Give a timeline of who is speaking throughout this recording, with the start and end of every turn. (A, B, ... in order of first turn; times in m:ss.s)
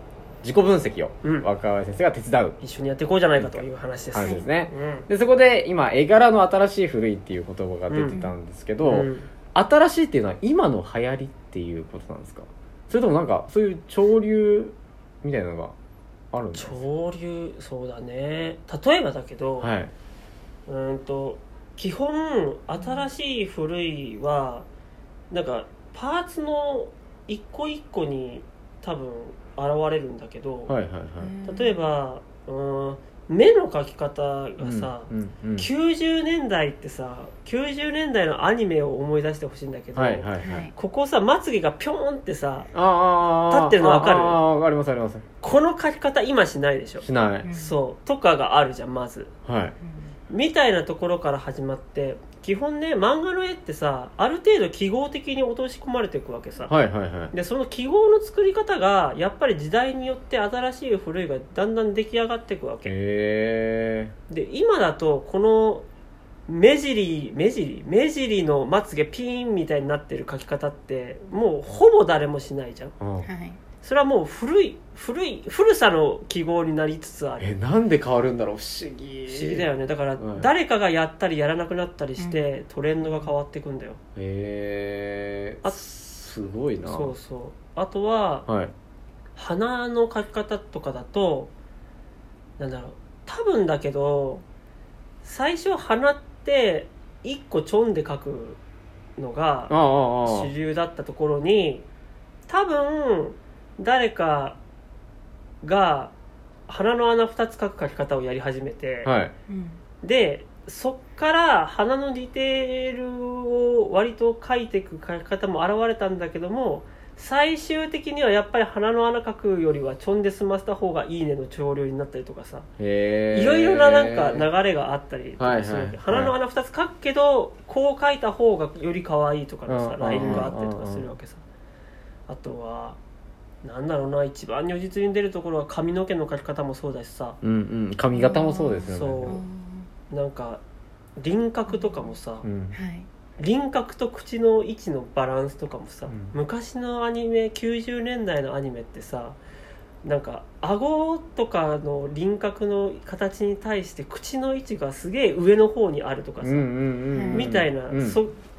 0:00.4-0:02.6 A
0:02.6-0:05.1 B
0:03.4-0:15.7 A
0:07.9-0:08.2 B
0:08.0-0:08.4 C
0:08.8-0:09.3 B
0:16.3-0:16.8 A
0:16.5-0:19.7 B
0:19.6-0:19.9 A
0:20.7-0:24.7 B
0:22.8-0:23.1 C
0:25.3-0:30.7 B
0:30.7-0:31.3 A
0:31.2-0:31.9 C
0:31.4-0:42.7 B
0:34.6-0:35.7 A
0:39.9-0:40.7 A
0:40.4-0:40.7 C
0:42.7-0:45.2 A
0:43.5-0:44.4 B
0:45.4-0:49.3 B
0:47.0-0:47.5 A
0:47.4-0:47.8 C
0:49.4-0:49.8 A
0:49.8-0:50.1 C
0:50.3-0:56.7 B
0:56.7-0:57.3 A
0:57.3-1:02.9 B
1:02.8-1:04.1 A
1:04.3-1:05.8 B
1:06.5-1:12.9 B
1:13.0-1:13.3 A
1:13.2-1:13.6 C
1:13.8-1:17.6 B
1:17.4-1:19.7 A
1:19.3-1:24.0 B
1:20.2-1:20.5 A
1:22.2-1:22.5 C
1:23.0-1:23.3 C
1:24.2-1:27.1 A
1:26.8-1:28.5 B
1:28.5-1:28.7 A
1:29.4-1:31.5 B
1:32.6-1:34.4 B
1:35.2-1:38.6 B
1:39.2-1:41.8 B
1:39.7-1:40.5 A
1:42.5-1:44.6 B
1:45.6-1:46.1 B
1:46.7-1:49.1 B
1:49.0-1:49.3 A
1:49.5-1:49.8 C
1:50.0-2:02.7 B
2:02.8-2:04.5 A
2:03.3-2:11.4 B
2:05.4-2:06.3 A
2:09.7-2:11.1 A
2:10.1-2:10.5 C
2:12.3-2:13.0 B
2:13.6-2:17.4 B
2:17.4-2:19.4 A
2:18.1-2:19.9 C
2:18.9-2:19.4 B
2:20.1-2:20.6 B
2:21.2-2:22.4 B
2:21.7-2:22.1 C
2:22.4-2:22.8 A
2:22.7-2:23.1 C
2:23.4-2:29.4 B
2:26.1-2:26.3 A
2:30.0-2:36.7 B
2:36.4-2:38.2 A
2:37.1-2:37.6 C
2:37.3-2:38.4 B